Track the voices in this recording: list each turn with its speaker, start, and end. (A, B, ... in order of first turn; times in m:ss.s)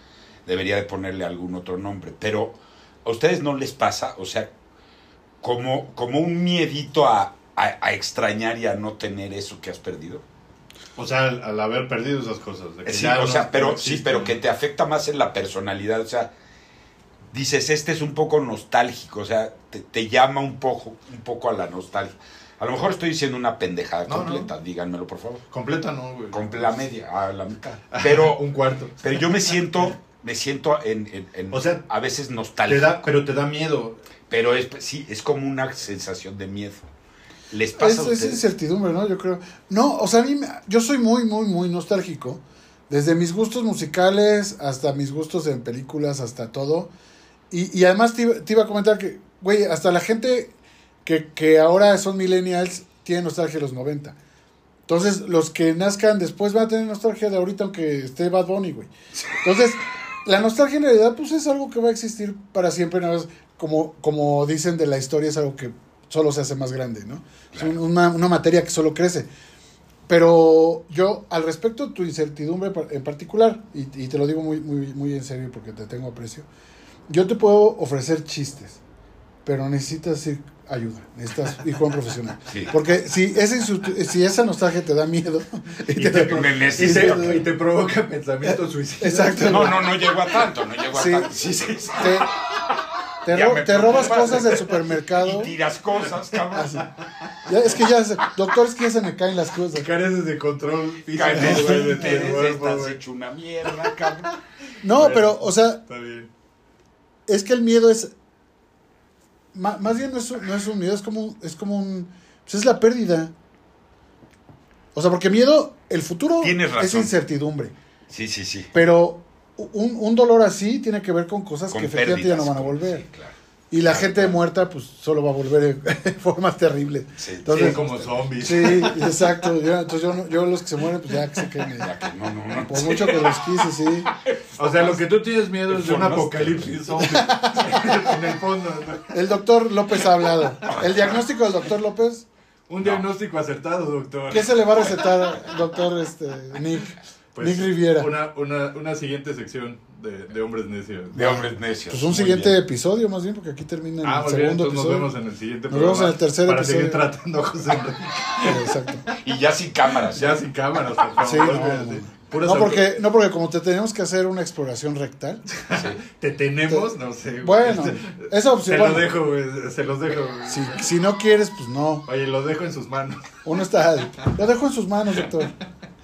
0:00.4-0:04.5 A
0:05.4-0:10.2 A
0:11.0-0:14.4 B
0:12.8-0:16.3 A
0:17.3-0:25.4 A
0:24.1-0:24.5 B
0:25.5-0:26.8 B
0:26.3-0:28.4 A
0:27.9-0:29.9 B
0:29.0-0:33.0 A
0:31.5-0:31.8 B
0:32.7-0:34.0 B
0:34.3-0:36.9 A
0:37.5-0:38.4 A
0:37.8-0:46.9 C
0:47.5-0:54.2 C
0:54.9-1:09.3 C
1:10.1-1:16.5 C
1:17.1-1:18.8 C
1:19.4-1:27.4 C
1:22.5-1:22.7 A
1:25.9-1:29.8 B
1:26.2-1:27.5 A
1:28.5-1:29.9 C
1:29.4-1:32.7 A
1:30.9-1:31.3 C
1:32.0-1:32.3 C
1:33.2-1:35.5 C
1:33.3-1:36.9 A
1:36.5-1:36.9 C
1:37.4-1:39.9 C
1:39.7-1:43.0 B
1:41.1-1:44.4 A
1:41.3-1:42.4 C
1:43.7-1:44.1 B
1:44.8-1:45.8 C
1:44.9-1:46.3 B
1:47.3-1:48.1 C
1:49.5-1:53.3 C
1:54.9-1:57.7 C
1:56.4-1:57.1 A
1:58.1-1:58.7 A
1:58.7-2:03.0 C
2:01.7-2:04.4 A
2:03.7-2:07.8 C
2:07.2-2:08.3 A
2:07.5-2:09.2 B
2:08.4-2:11.9 C
2:11.8-2:13.4 A
2:12.5-2:14.1 C
2:14.1-2:15.1 A
2:14.6-2:19.1 B
2:15.7-2:17.0 A
2:17.0-2:17.9 C
2:19.1-2:22.2 C
2:22.7-2:25.3 B
2:24.3-2:28.1 C
2:27.3-2:31.4 B
2:31.1-2:32.6 A
2:31.4-2:35.1 C
2:34.0-2:39.2 B
2:35.7-2:37.0 C
2:38.4-2:39.1 C
2:39.1-2:40.4 A
2:39.9-2:42.9 B
2:41.2-2:45.4 C
2:45.5-2:50.9 B
2:45.7-2:46.0 A
2:47.4-2:49.1 C
2:50.4-2:52.0 C
2:52.0-2:53.3 B
2:53.4-2:55.5 C